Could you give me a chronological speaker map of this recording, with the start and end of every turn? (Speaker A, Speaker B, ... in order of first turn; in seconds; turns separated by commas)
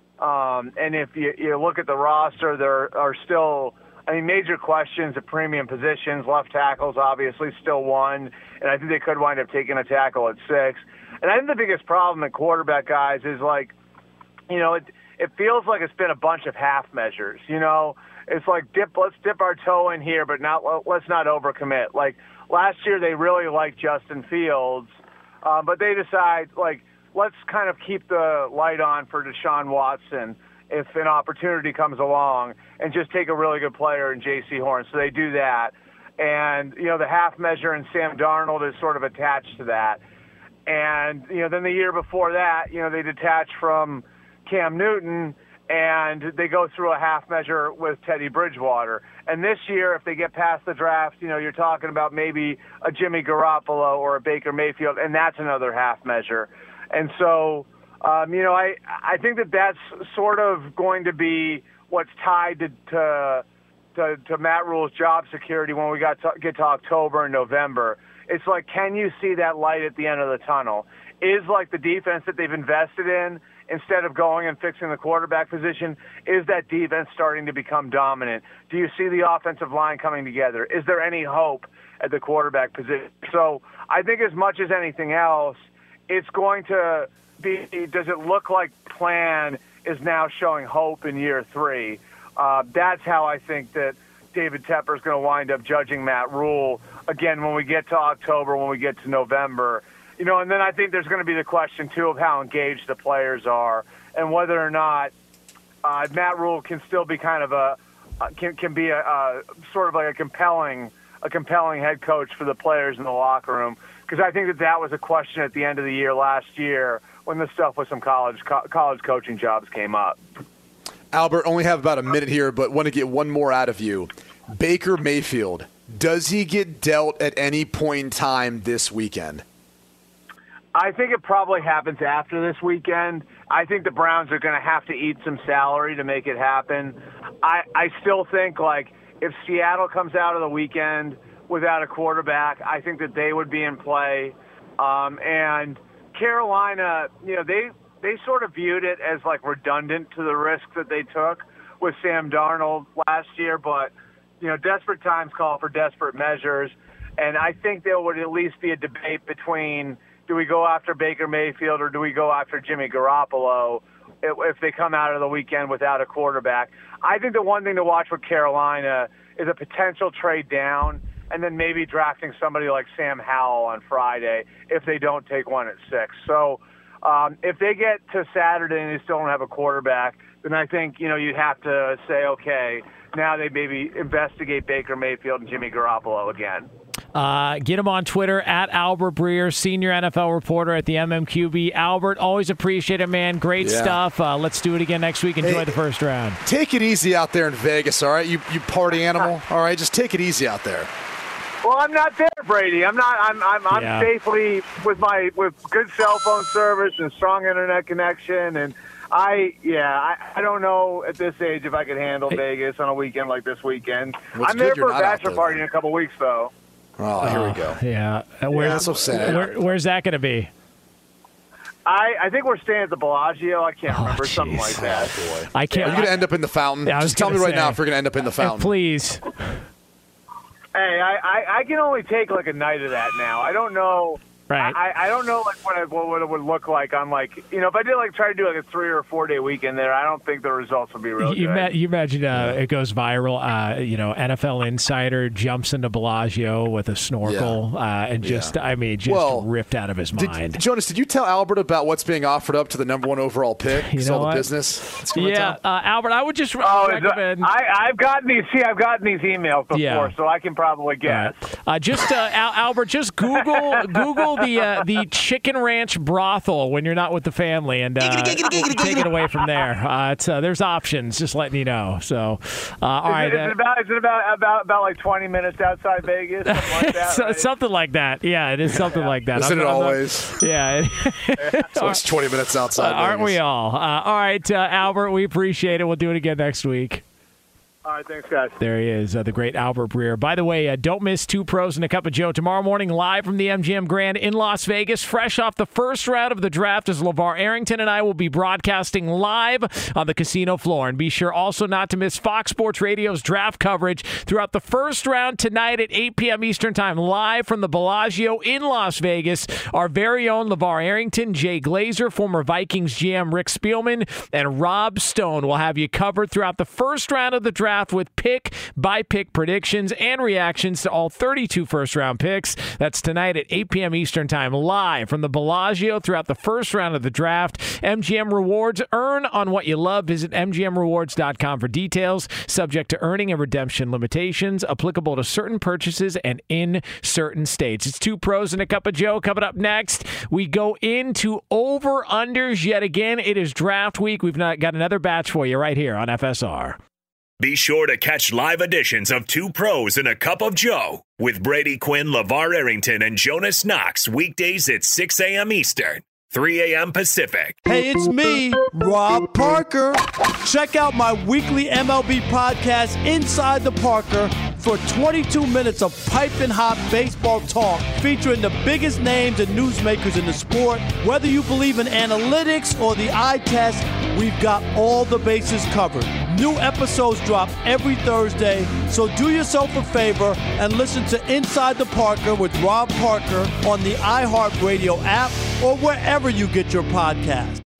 Speaker A: 0.2-13.7, Speaker A: 14.5-24.9, Speaker A: 25.4-40.0, Speaker A: 40.7-85.6, Speaker A: 86.1-105.1, Speaker A: 105.8-120.2, Speaker B: 121.1-129.4, Speaker A: 130.8-186.7, Speaker C: 187.2-196.4, Speaker B: 193.6-194.0, Speaker B: 195.4-195.8, Speaker B: 196.4-200.9, Speaker A: 201.6-216.5, Speaker C: 203.7-204.1, Speaker B: 214.3-215.6, Speaker B: 217.0-217.8, Speaker C: 217.2-220.5, Speaker B: 218.5-219.5, Speaker A: 221.9-226.1, Speaker C: 223.9-224.8, Speaker B: 224.8-228.7, Speaker C: 225.5-226.2, Speaker C: 226.8-227.8, Speaker C: 228.4-229.5, Speaker A: 230.8-241.8, Speaker C: 234.5-234.8, Speaker C: 241.2-250.6, Speaker B: 242.3-242.6, Speaker B: 247.2-247.6, Speaker B: 248.2-249.5, Speaker B: 250.1-255.6, Speaker C: 253.7-257.5, Speaker A: 256.6-261.4, Speaker C: 259.7-260.1, Speaker C: 261.1-273.6, Speaker A: 273.1-277.5, Speaker C: 276.5-282.0, Speaker B: 278.7-280.4, Speaker B: 281.7-283.4, Speaker C: 282.8-287.0, Speaker A: 287.9-288.6, Speaker C: 288.6-346.8, Speaker D: 347.4-357.6, Speaker E: 357.7-387.6